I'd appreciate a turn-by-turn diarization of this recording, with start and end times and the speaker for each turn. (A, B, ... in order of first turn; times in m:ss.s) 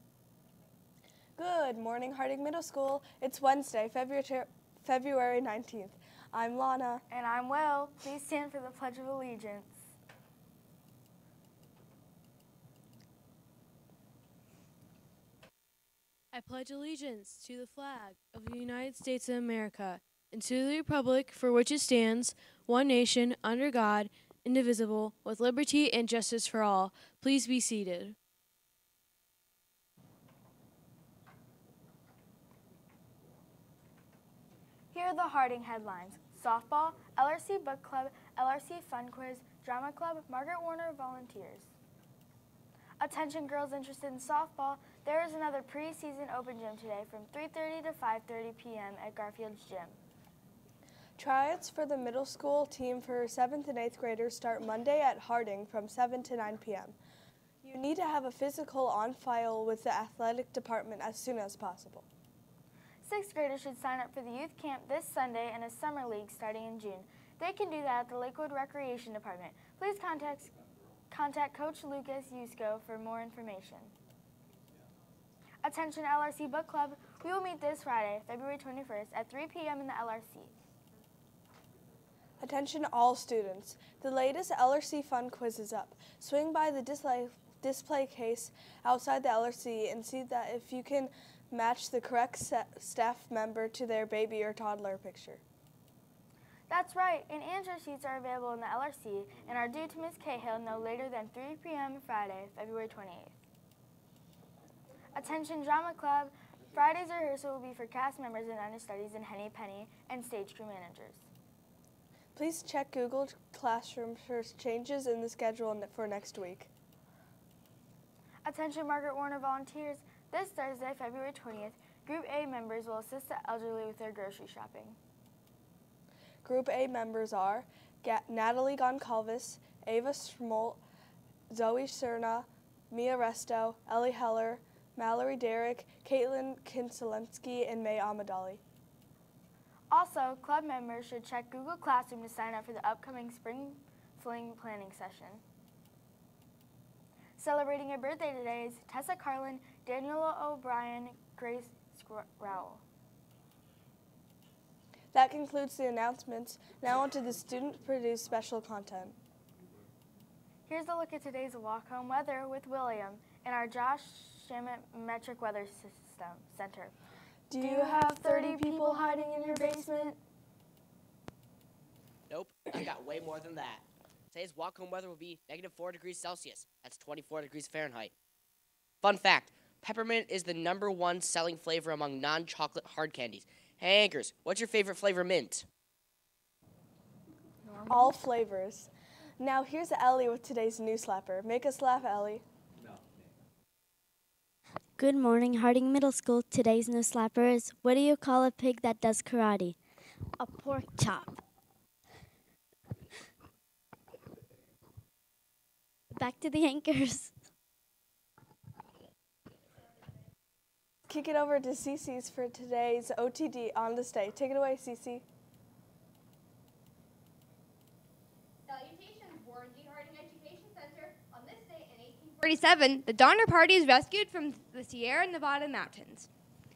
0:01.4-0:07.0 A
0:07.1-0:09.8 B
0:16.3-0:28.2 C
0:34.9-0:41.7 B
0:43.0-0:50.0 B
0:51.2-0:57.0 A
0:57.6-1:02.0 A
1:03.0-1:10.5 B
1:11.1-1:13.9 B
1:15.6-1:20.5 B
1:22.4-1:35.4 A
1:36.7-1:43.3 B
1:45.1-1:51.2 B
1:52.3-1:56.7 A
1:58.4-2:05.0 B
2:06.4-2:10.8 A
2:11.5-2:18.6 A
2:19.9-2:25.4 B
2:27.4-2:32.8 B
2:35.1-2:39.1 A
2:40.7-2:47.0 B
2:47.5-2:50.1 A
2:47.6-2:50.2 B
2:52.3-2:58.1 D
2:59.0-3:05.6 D
3:07.6-3:08.2 B
3:07.9-3:12.4 A
3:15.0-3:19.8 E
3:20.4-3:21.4 E
3:26.1-3:27.3 E
3:31.1-3:35.2 A
3:38.6-3:46.3 F